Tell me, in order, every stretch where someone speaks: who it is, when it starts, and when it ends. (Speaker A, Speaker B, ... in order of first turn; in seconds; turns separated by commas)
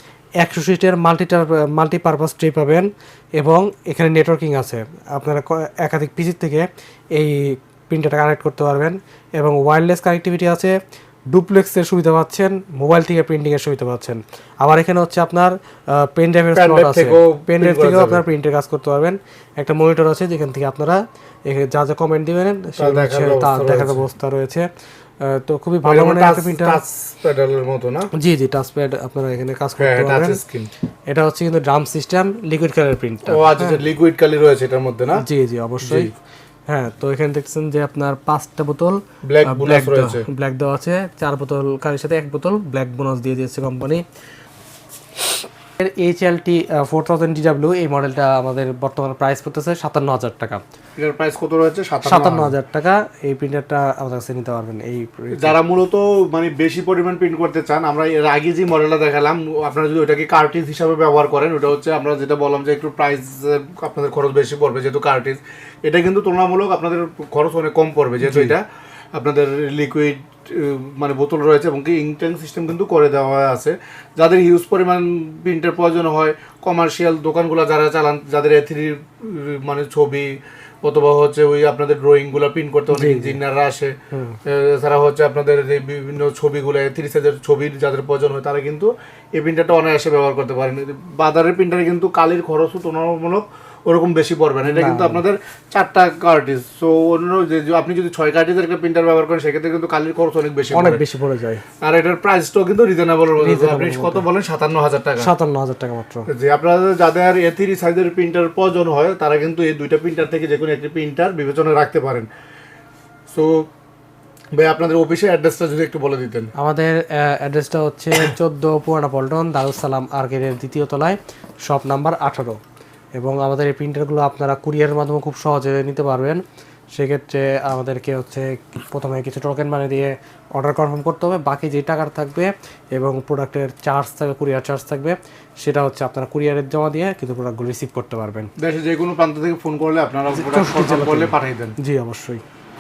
Speaker A: 0.4-10.8, Speaker A: 11.3-24.7, Speaker B: 16.6-18.2, Speaker B: 22.8-24.0, Speaker A: 25.2-26.8, Speaker B: 25.9-28.1, Speaker A: 28.1-30.4, Speaker B: 29.8-30.7, Speaker A: 31.1-33.8, Speaker B: 33.2-35.2, Speaker A: 35.2-36.1, Speaker B: 35.8-36.1, Speaker A: 36.7-44.0, Speaker B: 39.2-40.2, Speaker A: 45.2-50.6, Speaker B: 51.0-52.5, Speaker A: 52.0-55.5, Speaker B: 55.4-68.6, Speaker A: 68.2-68.6, Speaker B: 69.1-83.9, Speaker A: 82.9-83.4, Speaker A: 84.1-84.4, Speaker B: 84.4-101.0, Speaker A: 94.6-95.2, Speaker A: 100.7-101.6, Speaker B: 101.8-105.3, Speaker A: 103.4-104.2, Speaker A: 105.2-106.2, Speaker B: 106.3-112.3, Speaker B: 113.3-113.7, Speaker B: 114.6-116.5, Speaker A: 116.6-122.6, Speaker A: 123.2-126.4, Speaker A: 126.9-138.5, Speaker B: 138.6-141.8, Speaker A: 140.4-142.4